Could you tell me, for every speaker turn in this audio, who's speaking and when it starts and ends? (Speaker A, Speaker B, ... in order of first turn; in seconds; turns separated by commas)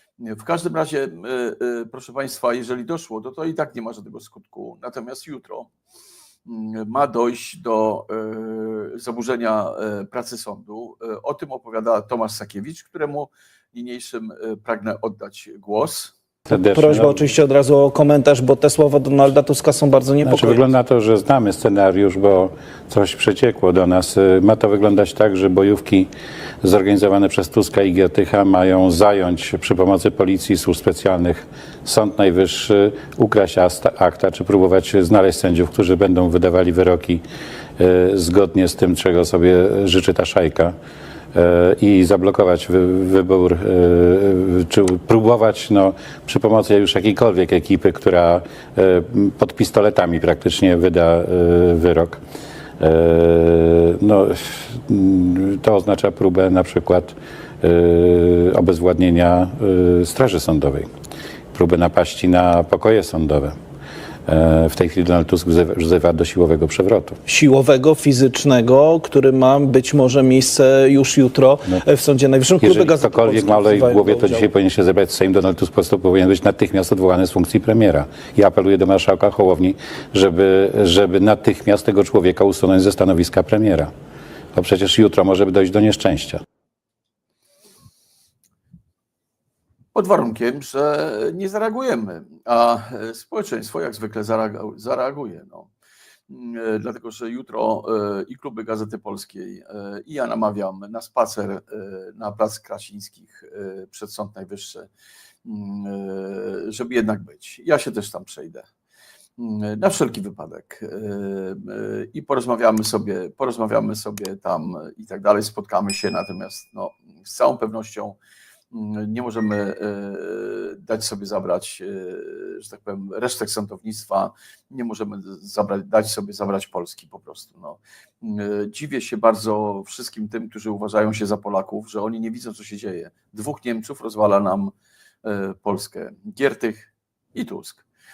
Speaker A: 0.2-5.7, Speaker A: 6.5-16.1, Speaker B: 16.5-17.2, Speaker C: 16.5-20.7, Speaker B: 20.2-26.1, Speaker B: 26.6-37.2, Speaker B: 37.8-40.8, Speaker B: 41.3-52.2, Speaker B: 52.8-60.9, Speaker B: 61.5-63.6, Speaker B: 64.3-67.2, Speaker C: 67.3-74.5, Speaker B: 72.6-83.9, Speaker B: 84.5-86.4, Speaker A: 89.9-95.7, Speaker A: 96.3-104.9, Speaker A: 105.5-108.7, Speaker A: 109.4-118.2, Speaker A: 118.7-134.7, Speaker A: 135.2-137.8